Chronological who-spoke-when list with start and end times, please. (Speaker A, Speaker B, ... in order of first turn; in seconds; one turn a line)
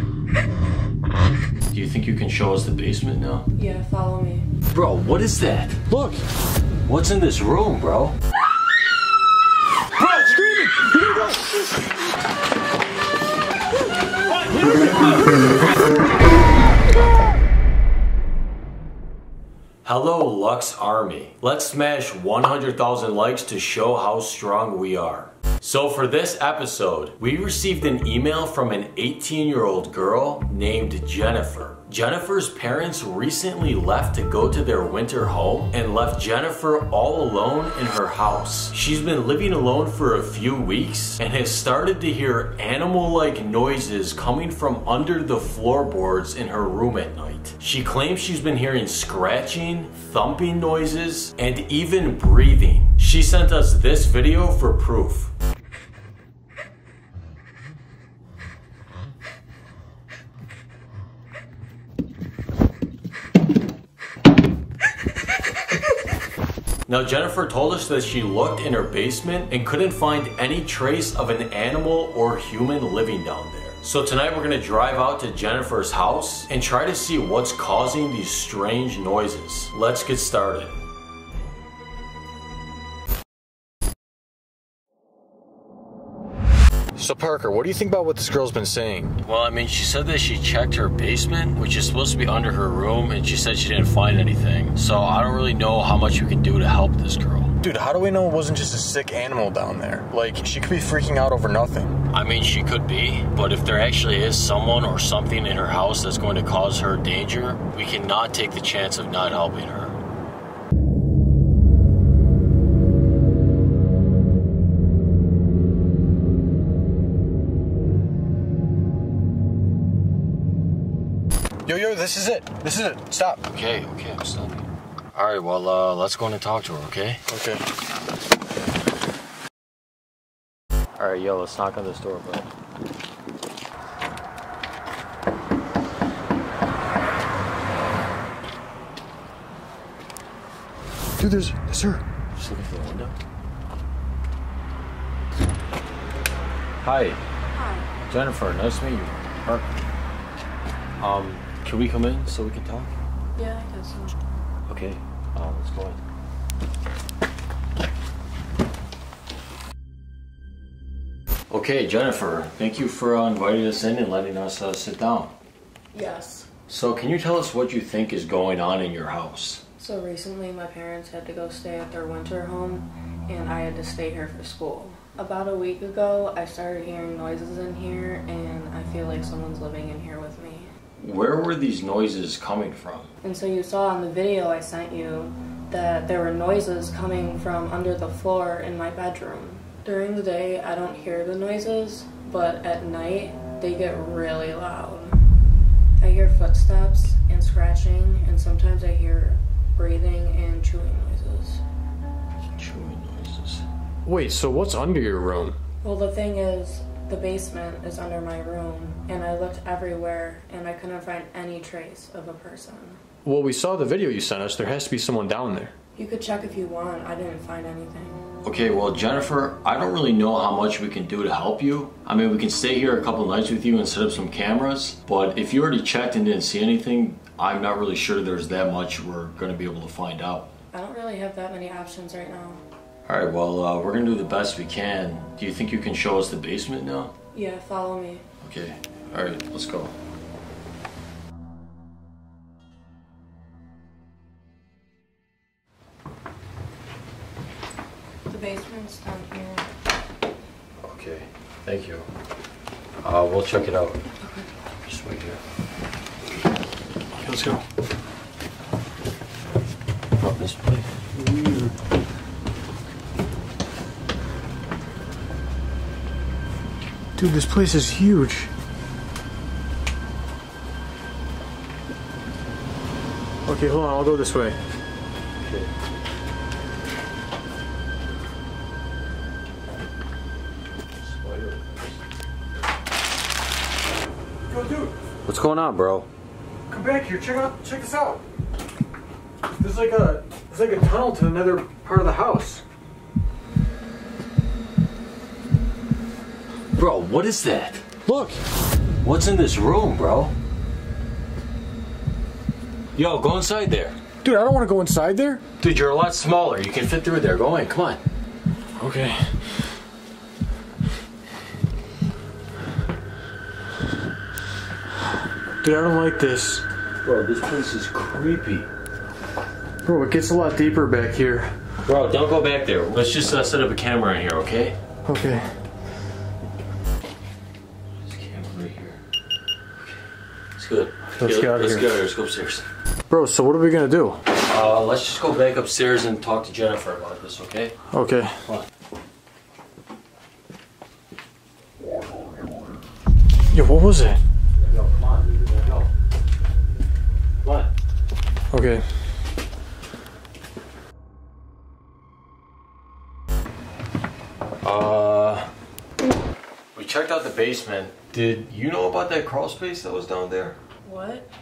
Speaker A: 1.7-3.5
Speaker B: 3.5-4.5
Speaker A: 4.7-5.8
Speaker C: 5.9-6.2
Speaker A: 6.8-8.2
Speaker C: 10.0-11.4
Speaker A: 14.5-15.2
Speaker A: 19.8-55.3
Speaker A: 66.9-80.8
Speaker C: 87.0-89.1
Speaker A: 89.2-97.5
Speaker C: 97.6-101.9
Speaker A: 102.1-110.0
Speaker C: 121.7-123.4
Speaker A: 123.4-127.2
Speaker C: 127.3-127.6
Speaker A: 131.0-132.5
Speaker C: 141.2-142.0
Speaker A: 142.3-143.1
Speaker A: 146.8-147.2
Speaker B: 147.6-147.9
Speaker A: 148.1-149.7
Speaker A: 151.0-152.9
Speaker B: 153.3-154.2
Speaker A: 154.7-156.0
Speaker A: 161.5-165.3
Speaker B: 165.9-166.5
Speaker A: 166.7-169.6
Speaker B: 169.8-180.7
Speaker A: 181.0-183.1
Speaker B: 183.2-195.2
Speaker B: 196.0-201.6
Speaker A: 202.6-203.6
Speaker C: 204.1-205.6
Speaker B: 205.8-213.0
Speaker C: 213.2-215.7
Speaker B: 215.9-218.3
Speaker A: 218.4-230.5
Speaker B: 230.7-232.6
Speaker A: 233.1-237.1
Speaker B: 237.3-238.2
Speaker A: 238.4-239.9
Speaker B: 248.3-249.7
Speaker A: 250.8-252.1
Speaker A: 253.0-254.0
Speaker B: 254.2-254.5
Speaker A: 254.8-255.4
Speaker C: 257.2-257.6
Speaker A: 260.2-260.9
Speaker C: 267.2-268.5
Speaker C: 273.5-274.6
Speaker A: 275.4-275.7
Speaker A: 281.0-282.0
Speaker C: 284.5-284.9
Speaker A: 285.2-286.1
Speaker C: 286.7-288.2
Speaker C: 289.6-292.6
Speaker A: 296.8-297.8
Speaker C: 298.1-298.4
Speaker A: 299.0-300.3
Speaker A: 302.9-304.0
Speaker C: 304.2-305.4
Speaker A: 305.6-308.0
Speaker C: 308.8-309.3
Speaker C: 315.6-316.6
Speaker A: 317.0-318.7
Speaker C: 319.8-321.5
Speaker A: 321.8-324.8
Speaker C: 325.1-325.4
Speaker A: 328.0-329.0
Speaker A: 330.6-332.6
Speaker C: 331.2-331.8
Speaker C: 333.1-334.2
Speaker A: 334.3-337.7
Speaker C: 337.9-338.3
Speaker C: 343.5-344.2
Speaker A: 344.7-345.9
Speaker A: 347.4-347.7
Speaker C: 348.5-348.8
Speaker A: 354.6-355.5
Speaker A: 356.7-360.6
Speaker B: 360.8-361.3